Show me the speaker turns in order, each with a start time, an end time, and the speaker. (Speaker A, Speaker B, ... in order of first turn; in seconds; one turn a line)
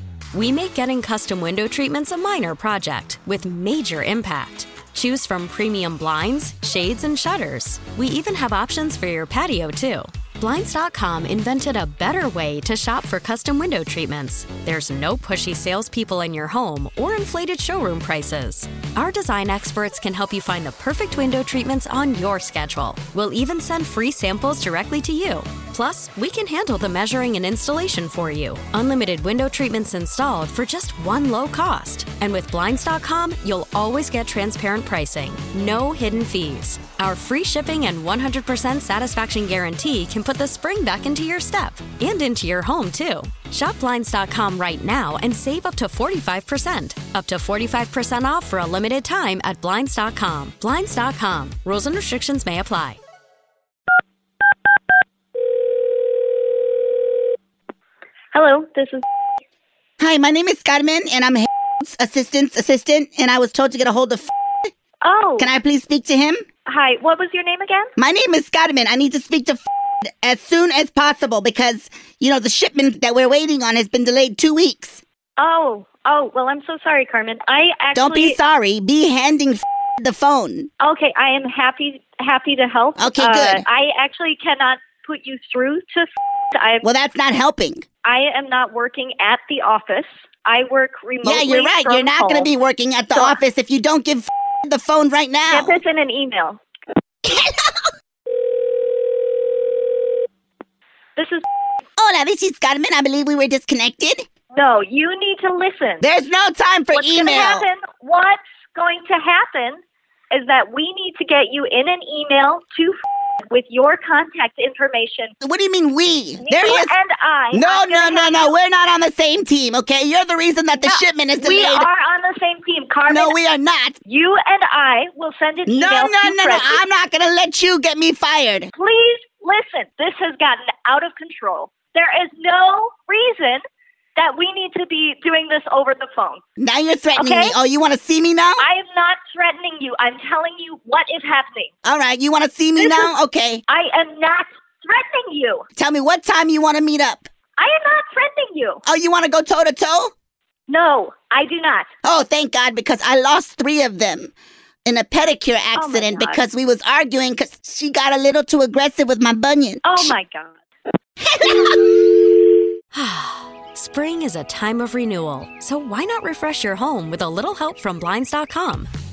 Speaker A: 0.3-53.0
Speaker B: 58.3-59.0
Speaker C: 60.0-64.3
Speaker B: 65.0-65.5
Speaker C: 65.4-66.4
Speaker B: 66.7-67.9
Speaker C: 68.0-75.0
Speaker B: 75.4-78.4
Speaker C: 77.9-80.7
Speaker B: 80.8-86.9
Speaker C: 83.0-83.7
Speaker C: 86.8-87.8
Speaker B: 88.0-92.5
Speaker C: 91.2-95.8
Speaker B: 95.5-96.6
Speaker C: 97.2-97.7
Speaker B: 101.2-101.5
Speaker C: 102.0-104.2
Speaker B: 104.5-106.0
Speaker C: 106.0-107.7
Speaker B: 106.9-109.8
Speaker B: 110.3-113.0
Speaker B: 113.5-115.3
Speaker C: 115.4-117.0
Speaker B: 116.4-118.5
Speaker C: 117.5-121.9
Speaker B: 120.8-123.3
Speaker C: 123.1-124.0
Speaker B: 124.0-126.8
Speaker C: 125.7-128.7
Speaker B: 128.7-133.6
Speaker B: 134.2-136.4
Speaker C: 136.6-138.7
Speaker B: 137.2-137.6
Speaker B: 138.6-141.7
Speaker C: 141.8-143.6
Speaker B: 142.8-143.1
Speaker B: 143.7-145.7
Speaker C: 145.8-147.3
Speaker B: 147.6-148.8
Speaker C: 148.8-150.1
Speaker B: 150.7-151.9
Speaker C: 152.0-154.3
Speaker C: 154.8-160.1
Speaker B: 155.8-156.4
Speaker B: 159.8-160.6
Speaker C: 161.2-162.2
Speaker A: 162.9-168.9